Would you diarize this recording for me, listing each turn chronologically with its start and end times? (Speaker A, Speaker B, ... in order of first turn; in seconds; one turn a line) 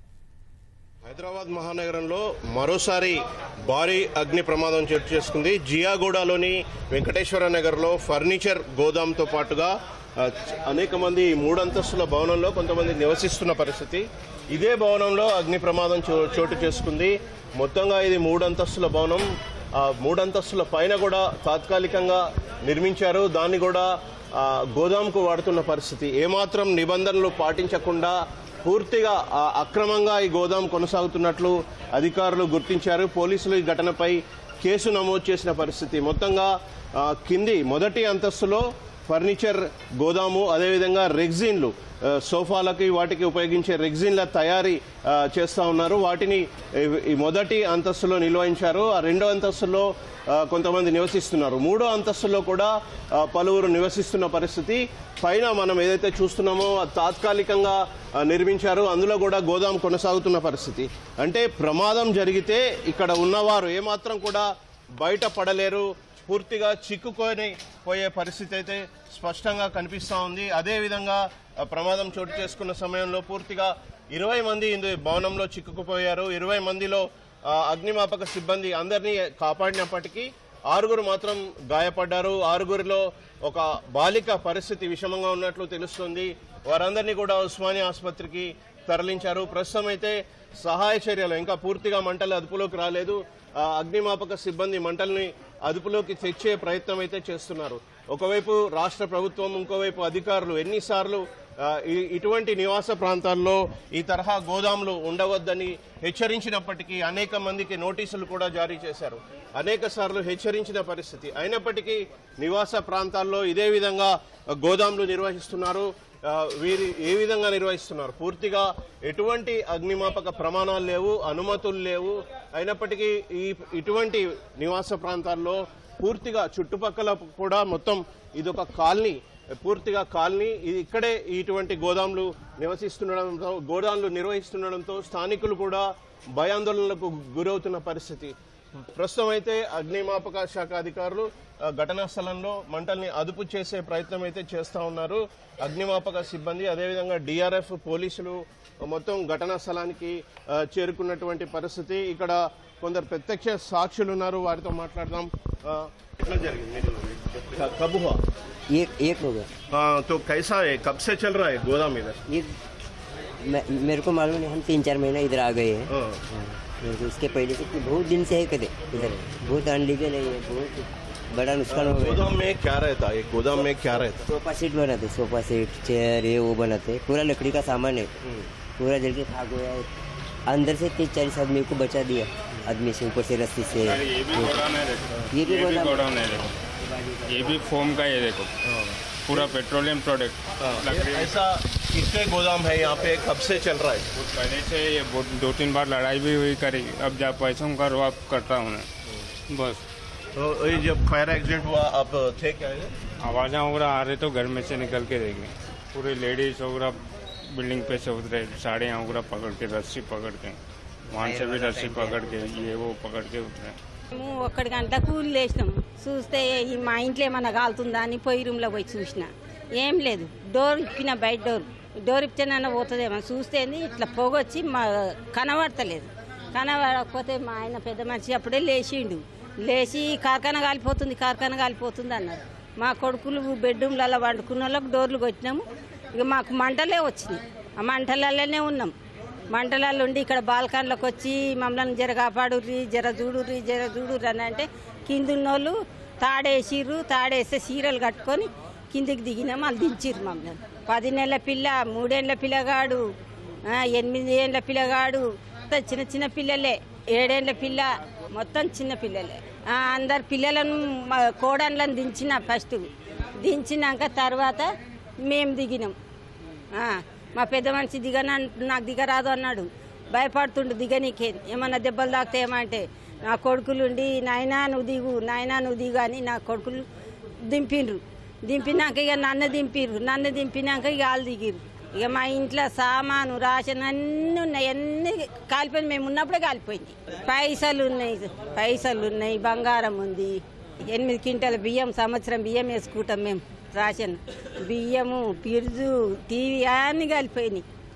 Speaker A: 1.0-138.3
Speaker A: 138.9-158.2
Speaker B: 158.7-159.5
Speaker A: 159.7-162.2
Speaker B: 162.3-162.5
Speaker B: 163.4-165.9
Speaker A: 165.9-166.2
Speaker B: 166.6-172.2
Speaker A: 171.7-174.3
Speaker B: 174.2-178.1
Speaker B: 178.8-179.9
Speaker B: 180.4-184.5
Speaker C: 183.8-186.6
Speaker B: 185.3-186.0
Speaker B: 187.0-187.4
Speaker C: 187.2-188.5
Speaker A: 188.7-189.4
Speaker C: 189.2-191.3
Speaker A: 190.6-194.1
Speaker C: 194.2-198.9
Speaker C: 199.5-199.8
Speaker A: 200.3-202.9
Speaker C: 203.2-207.0
Speaker C: 207.5-210.6
Speaker C: 211.1-213.8
Speaker B: 211.1-212.2
Speaker D: 214.1-238.9
Speaker D: 239.5-253.0
Speaker D: 253.7-262.9
Speaker D: 263.4-264.7
Speaker D: 265.2-265.9
Speaker D: 266.7-276.8
Speaker D: 277.5-297.6